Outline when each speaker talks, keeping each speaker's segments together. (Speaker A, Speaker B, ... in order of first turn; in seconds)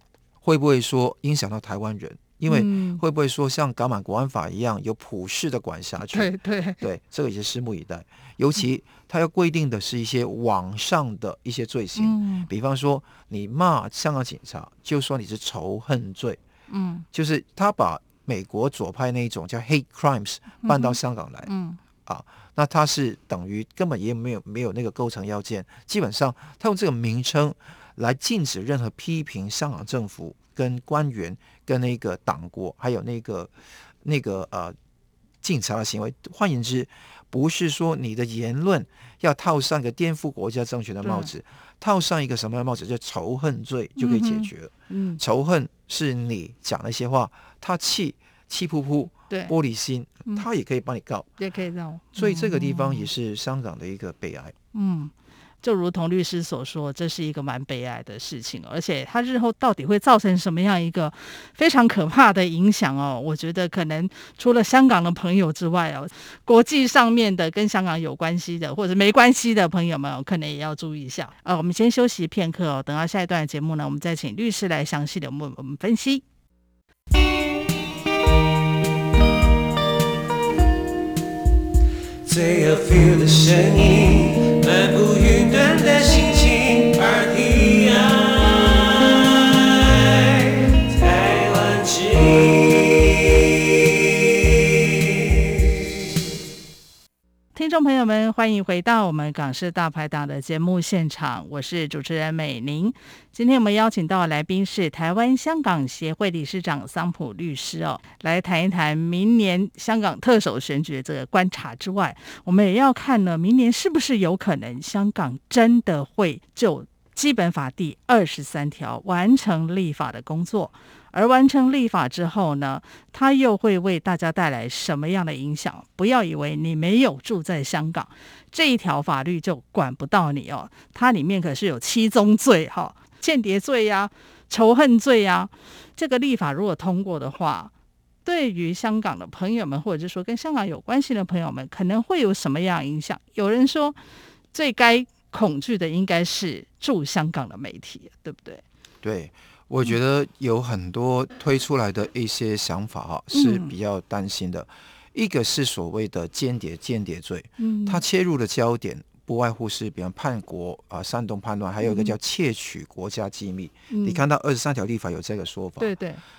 Speaker A: 0.4-16.4, 17.1-21.5, 22.0-33.5, 34.0-34.7, 35.4-51.3, 52.1-54.5, 149.0-165.9
Speaker B: 2.5-3.0, 6.1-6.8, 11.9-12.5, 16.7-17.1, 20.6-21.8, 41.0-41.3, 44.0-45.2, 51.4-53.1, 54.7-55.1, 55.6-76.2, 97.5-137.7, 138.2-143.9, 144.5-148.6, 153.3-153.7, 157.6-158.0, 161.8-162.1, 163.9-164.2, 165.8-166.2
Speaker C: 82.2-95.4